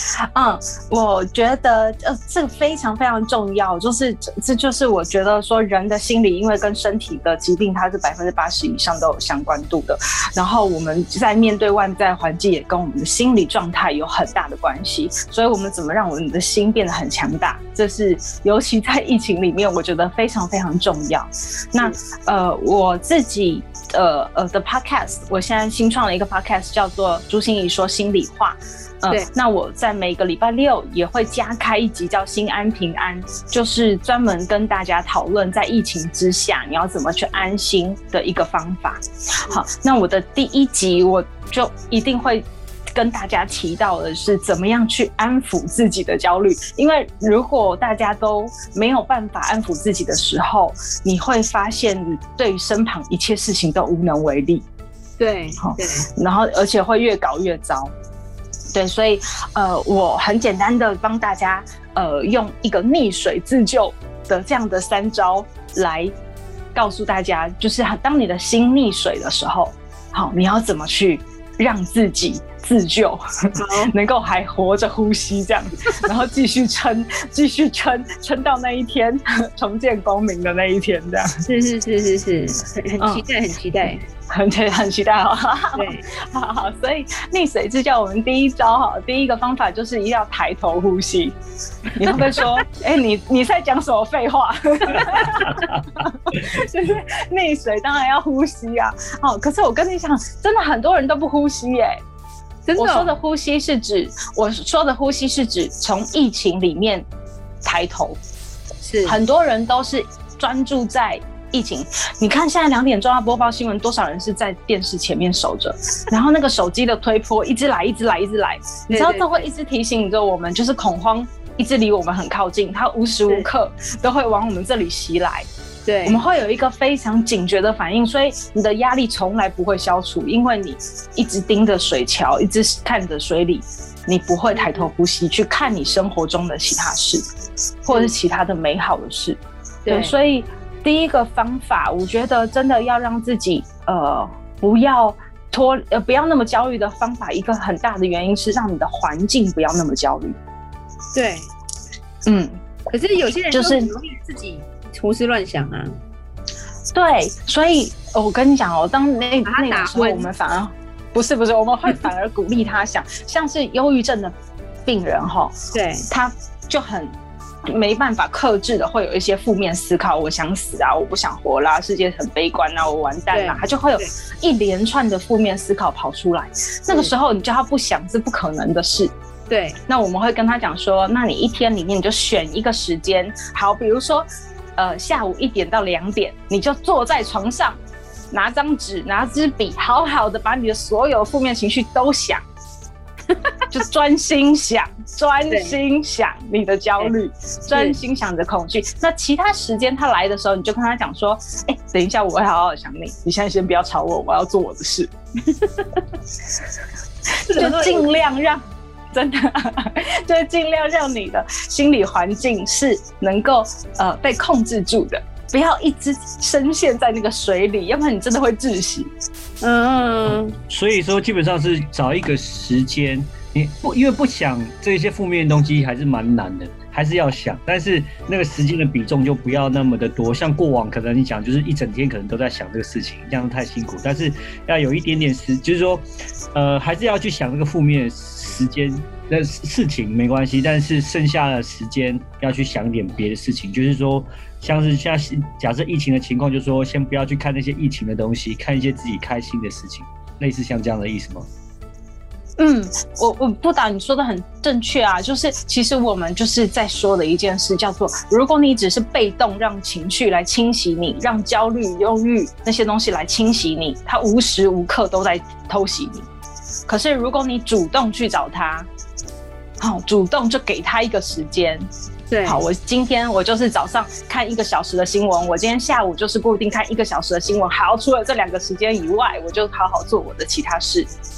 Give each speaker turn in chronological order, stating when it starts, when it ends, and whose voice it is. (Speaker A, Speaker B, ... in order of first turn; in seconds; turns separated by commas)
Speaker A: 0.3-54.6, Speaker B: 55.2-56.1, Speaker A: 55.6-57.9, Speaker A: 58.8-66.1, Speaker A: 66.7-73.2, Speaker B: 73.6-73.9, Speaker A: 73.8-81.3, Speaker B: 81.5-84.0, Speaker A: 84.3-91.4, Speaker B: 85.8-86.0, Speaker A: 92.0-102.0, Speaker B: 102.7-103.1, Speaker A: 102.8-107.1, Speaker A: 107.6-108.2, Speaker B: 108.8-109.2, Speaker A: 109.1-125.5, Speaker B: 118.9-119.5, Speaker B: 125.9-126.2, Speaker A: 126.0-137.2, Speaker B: 134.5-134.9, Speaker A: 137.8-150.4, Speaker B: 139.8-140.1, Speaker B: 151.1-151.5, Speaker A: 152.3-152.6, Speaker B: 152.9-155.9, Speaker A: 153.5-153.9, Speaker A: 156.9-164.3, Speaker B: 159.4-160.3, Speaker A: 164.9-165.6, Speaker B: 165.7-166.1, Speaker A: 166.1-167.1, Speaker A: 167.7-179.1, Speaker B: 173.3-174.1, Speaker B: 179.5-179.8, Speaker A: 179.9-187.8, Speaker A: 188.3-192.4, Speaker A: 193.7-205.1, Speaker B: 195.5-195.8, Speaker A: 207.5-219.1, Speaker B: 207.5-208.1, Speaker B: 219.6-220.6, Speaker C: 220.3-251.5, Speaker A: 252.6-266.3, Speaker A: 266.9-268.9, Speaker A: 269.8-271.9, Speaker B: 272.3-272.6, Speaker A: 272.4-281.1